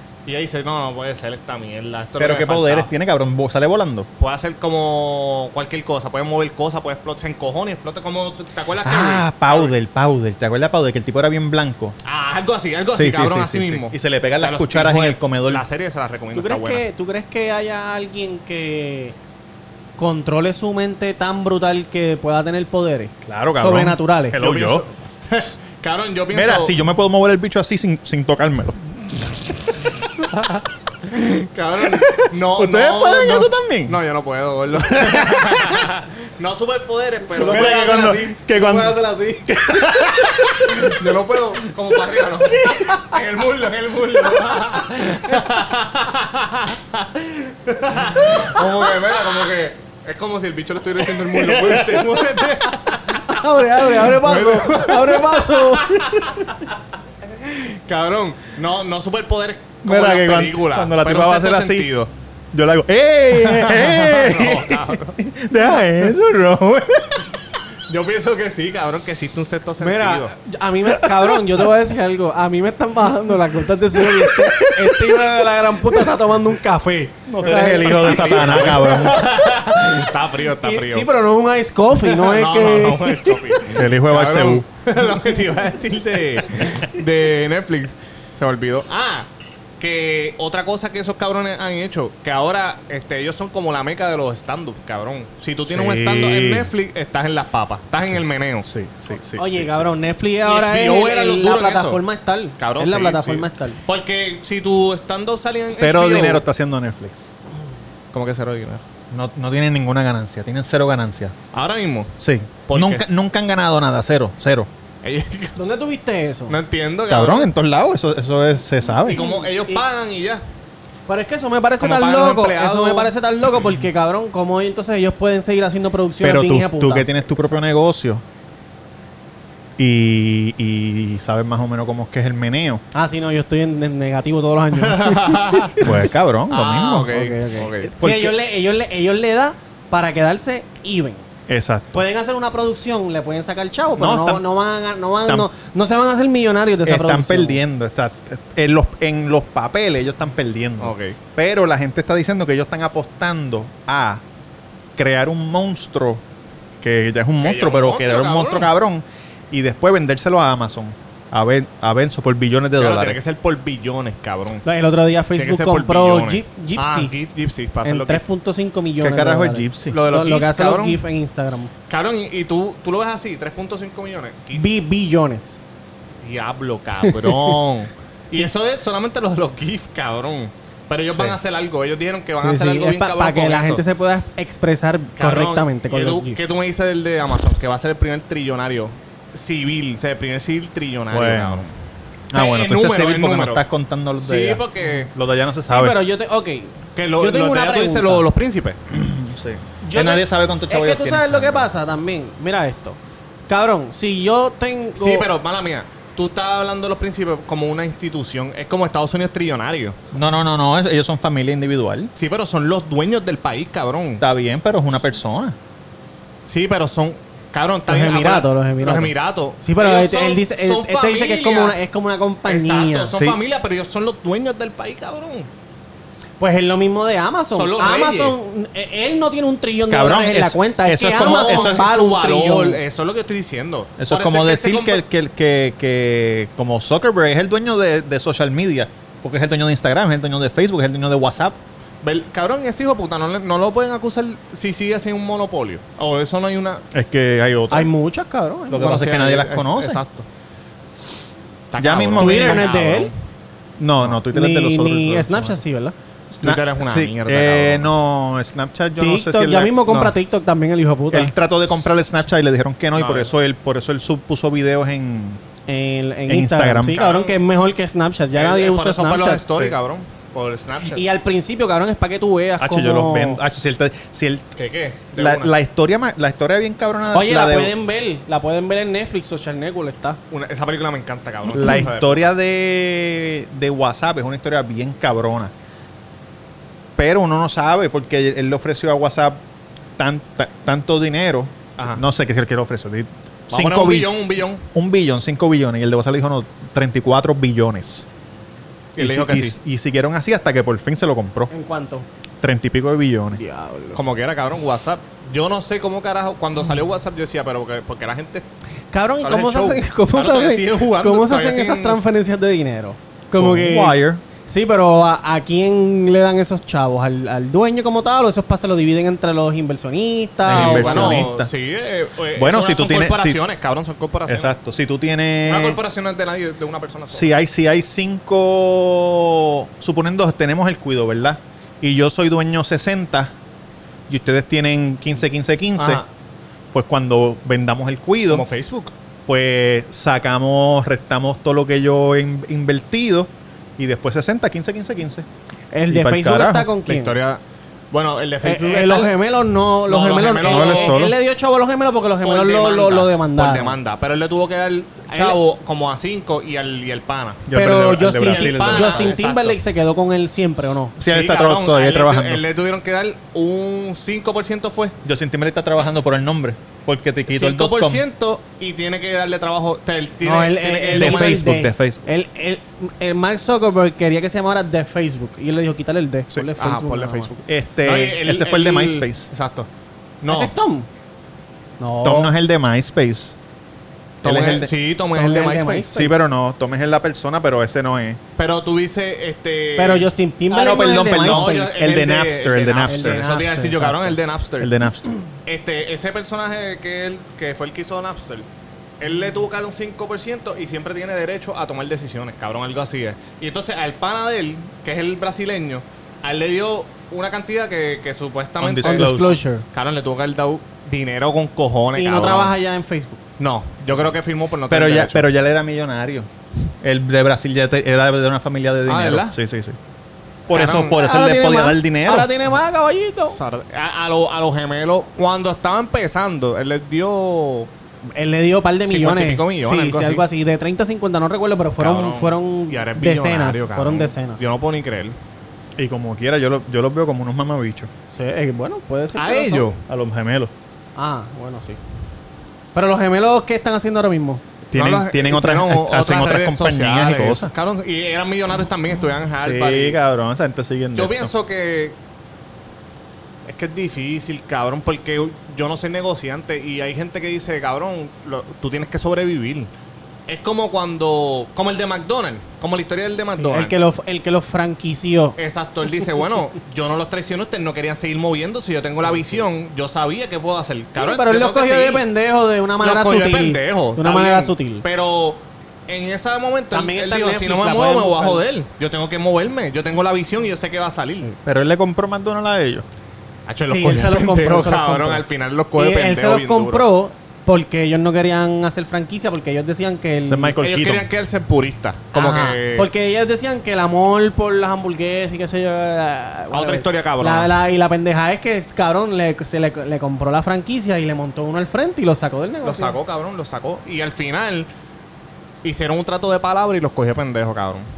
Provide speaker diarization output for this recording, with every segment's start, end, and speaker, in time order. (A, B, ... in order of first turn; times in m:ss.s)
0:00.2-0:02.9 A
0:02.2-0:04.1 B
0:04.2-0:09.7 A
0:08.8-0:12.0 B
0:12.0-0:16.8 A
0:12.9-0:15.6 B
0:16.3-0:19.1 C
0:20.0-0:24.4 C
0:23.2-0:24.8 B
0:24.3-0:26.8 A
0:26.3-0:29.0 B
0:31.1-0:37.9 A
0:31.8-0:34.0 B
0:34.8-0:35.9 B
0:37.3-0:39.8 C
0:37.4-0:40.9 B
0:40.6-0:53.3 A
0:42.4-0:43.0 B
0:51.3-0:52.2 B
0:53.2-0:56.1 C
0:54.0-0:56.6 A
0:57.3-1:02.1 A
0:59.8-1:01.9 B
1:02.5-1:07.4 B
1:03.3-1:05.2 A
1:07.9-1:10.3 A
1:09.8-1:20.1 C
1:10.8-1:11.5 B
1:14.0-1:15.2 B
1:17.2-1:19.2 B
1:17.8-1:21.1 A
1:20.6-1:23.5 C
1:22.0-1:29.3 A
1:23.7-1:24.6 B
1:29.8-1:38.6 A
1:35.7-1:36.7 B
1:38.0-1:39.9 B
1:39.4-1:43.8 C
1:40.4-1:42.0 A
1:42.6-1:46.4 A
1:45.7-1:47.3 B
1:48.1-1:48.8 A
1:49.1-1:51.3 B
1:51.5-1:52.1 A
1:52.2-1:54.7 B
1:52.6-1:53.0 A
1:55.0-1:55.6 A
1:55.6-1:56.6 C
1:56.5-1:57.5 A
1:57.1-1:59.2 B
1:59.1-2:00.4 A
1:59.1-1:59.8 C
2:01.1-2:07.1 C
2:01.8-2:03.1 A
2:06.2-2:08.2 B
2:09.8-2:12.8 B
2:12.9-2:15.8 C
2:14.8-2:15.8 A
2:15.8-2:17.1 B
2:16.5-2:17.9 A
2:17.1-2:21.2 C
2:18.0-2:18.3 B
2:21.5-2:22.0 B
2:21.9-2:27.6 C
2:24.0-2:24.4 B
2:26.8-2:34.2 B
2:30.8-2:31.2 A
2:35.0-2:36.2 B
2:36.8-2:43.2 B
2:37.4-2:38.7 A
2:42.8-2:44.6 A
2:44.6-2:47.1 C
2:45.4-2:48.2 A
2:47.8-2:51.7 C
2:49.0-2:50.0 B
2:49.9-2:51.0 A
2:51.9-2:54.6 A
2:54.5-2:55.6 C
2:56.2-3:03.8 A
2:57.0-2:57.6 C
3:02.4-3:06.4 C
3:05.2-3:11.7 A
3:11.1-3:11.6 B
3:12.3-3:16.0 B
3:12.3-3:13.6 A
3:14.2-3:15.1 A
3:15.6-3:18.2 C
3:17.0-3:18.8 A
3:18.9-3:21.7 B
3:19.8-3:25.3 C
3:25.0-3:30.0 A
3:30.1-3:32.1 B
3:32.2-3:34.2 A
3:34.2-3:35.6 B
3:36.4-3:41.8 A
3:37.9-3:43.2 C
3:42.4-3:45.5 A
3:46.4-3:52.8 C
3:47.5-3:48.4 A
3:49.9-3:51.8 B
3:51.2-3:55.0 A
3:54.0-4:01.6 B
4:02.0-4:06.8 A
4:06.9-4:07.9 B
4:07.7-4:09.1 C
4:08.7-4:10.0 B
4:08.8-4:10.2 A
4:11.7-4:13.1 A
4:11.8-4:12.6 B
4:12.2-4:13.1 C
4:13.8-4:15.6 B
4:14.3-4:15.9 C
4:16.3-4:19.8 B
4:16.4-4:17.9 A
4:19.0-4:21.3 C
4:19.9-4:20.1 A
4:21.1-4:25.4 B
4:22.9-4:23.3 A
4:25.7-4:29.4 C
4:26.3-4:27.0 B
4:26.9-4:27.4 A
4:28.3-4:31.0 A
4:30.8-4:33.4 C
4:32.6-4:34.5 B
4:34.6-4:35.5 A
4:35.2-4:37.7 B
4:37.1-4:40.2 C
4:40.3-4:42.3 A
4:41.5-4:45.5 B
4:47.0-4:49.4 B
4:50.0-4:54.1 B
4:53.5-4:54.6 A
4:54.7-4:58.0 B
4:58.9-4:59.6 A
4:59.0-5:01.5 B
5:01.5-5:02.1 C
5:02.4-5:03.4 B
5:03.3-5:04.0 C
5:03.9-5:08.4 A
5:08.9-5:21.2 C
5:09.2-5:12.0 A
5:13.4-5:14.2 B
5:20.4-5:21.5 B
5:20.5-5:24.5 A
5:22.4-5:23.4 B
5:24.3-5:25.8 B
5:25.4-5:27.3 A
5:27.1-5:33.3 B
5:34.1-5:36.0 B
5:35.8-5:36.1 A
5:36.7-5:38.5 B
5:38.3-5:38.9 A
5:39.3-5:45.3 B
5:45.7-5:47.2 C
5:45.9-5:46.7 B
5:46.8-5:49.1 A
5:48.4-5:53.8 C
5:49.8-5:51.0 A
5:50.4-5:51.1 B
5:52.2-5:57.4 A
5:55.1-5:55.4 C
5:57.4-5:59.1 B
5:57.5-6:00.9 C
5:58.2-5:59.6 A
6:01.0-6:02.4 B
6:01.0-6:04.9 A
6:05.0-6:08.0 B
6:07.3-6:11.4 A
6:10.2-6:17.3 C
6:10.9-6:12.0 B
6:16.6-6:19.7 A
6:17.5-6:19.3 B
6:20.2-6:20.5 A
6:20.3-6:20.9 C
6:21.8-6:22.3 C
6:22.0-6:23.3 B
6:24.2-6:24.7 B
6:24.2-6:25.9 A
6:25.1-6:26.2 C
6:25.9-6:28.2 B
6:28.4-6:30.1 A
6:29.8-6:32.0 C
6:30.5-6:33.2 B
6:31.2-6:34.7 A
6:32.9-6:34.2 C
6:34.6-6:35.1 B
6:35.4-6:38.5 A
6:39.0-6:52.5 A
6:48.6-6:49.4 B
6:48.8-6:49.6 C
6:52.0-6:53.2 C
6:53.4-6:55.3 A
6:54.7-6:56.3 B
6:56.8-6:59.8 B
6:58.9-6:59.4 A
7:00.5-7:02.3 B
7:00.5-7:01.0 A
7:00.8-7:03.4 C
7:03.2-7:07.7 A
7:08.1-7:14.5 C
7:08.8-7:10.2 A
7:11.8-7:15.2 A
7:15.8-7:17.9 B
7:18.1-7:19.7 C
7:19.1-7:19.8 A
7:19.9-7:20.5 B
7:21.0-7:21.8 C
7:22.7-7:24.4 C
7:24.7-7:27.5 B
7:24.7-7:30.0 A
7:29.4-7:31.3 B
7:30.9-7:32.0 A
7:33.4-7:39.7 A
7:40.3-7:43.8 A
7:43.3-7:45.4 C
7:45.4-7:52.0 A
7:49.0-7:49.4 C
7:51.0-7:54.8 C
7:52.8-8:01.3 A
7:56.7-7:58.4 C
8:01.4-8:02.8 B
8:03.5-8:06.9 A
8:03.6-8:05.2 C
8:05.7-8:10.6 C
8:10.3-8:11.1 B
8:10.6-8:12.9 A
8:12.1-8:23.0 C
8:16.5-8:17.5 A
8:22.6-8:24.7 A
8:25.6-8:27.8 A